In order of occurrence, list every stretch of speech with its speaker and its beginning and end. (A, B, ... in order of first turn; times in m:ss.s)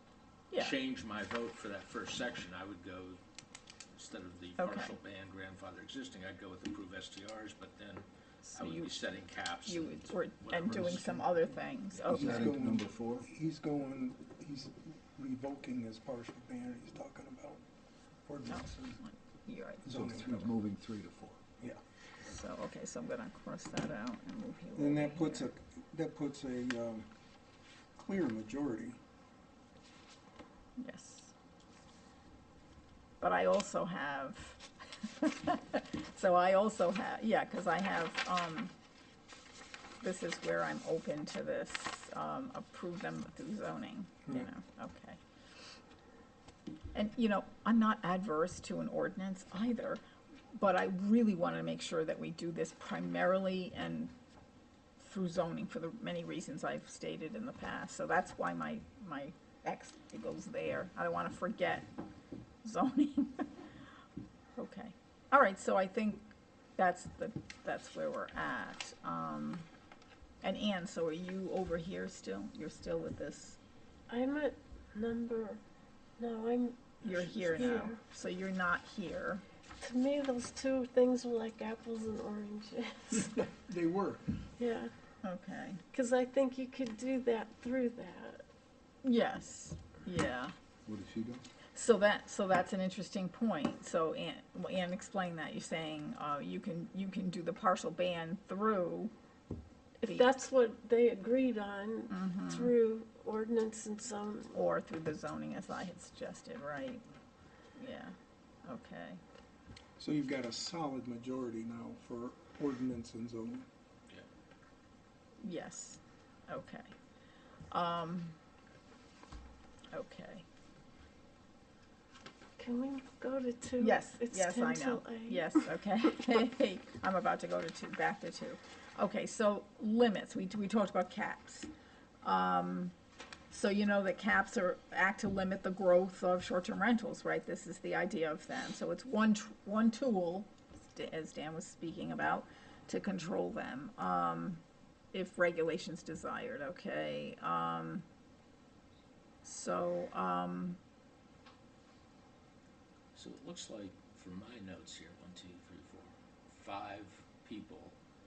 0:00.5-0:03.2 A
0:03.9-0:11.2 A
0:04.6-0:05.0 B
0:08.4-0:09.0 B
0:09.6-0:12.5 B
0:12.0-0:13.3 C
0:12.1-0:17.6 D
0:18.2-0:19.0 D
0:18.5-0:19.9 B
0:19.8-0:20.5 D
0:19.9-0:21.4 C
0:22.2-0:25.5 B
0:24.7-0:27.1 D
0:28.0-0:29.0 D
0:30.8-0:31.3 B
0:33.2-0:38.7 B
0:40.0-0:45.2 B
0:46.9-0:50.0 B
0:50.5-0:54.1 B
0:55.0-1:01.9 B
1:02.6-1:03.5 B
1:04.6-1:09.6 B
1:10.4-1:13.6 B
1:14.1-1:15.6 E
1:16.2-1:17.0 E
1:17.0-1:19.4 B
1:17.2-1:17.7 A
1:17.5-1:18.0 E
1:19.8-1:23.3 E
1:23.2-1:24.3 D
1:24.6-1:24.9 E
1:25.2-1:25.8 B
1:25.9-1:28.4 E
1:29.0-1:30.5 B
1:30.8-1:31.4 C
1:31.7-1:39.1 B
1:40.0-1:44.5 E
1:42.1-1:42.7 B
1:44.5-1:47.0 B
1:47.8-1:48.1 B
1:48.6-1:49.2 B
1:50.0-1:53.6 D
1:55.4-1:56.9 B
1:57.7-1:58.4 B
1:59.9-2:00.4 B
2:02.6-2:05.5 E
2:03.8-2:11.7 B
2:12.2-2:12.9 B
2:13.5-2:24.6 B
2:25.1-2:28.0 B
2:29.4-2:30.8 B
2:33.1-2:38.0 A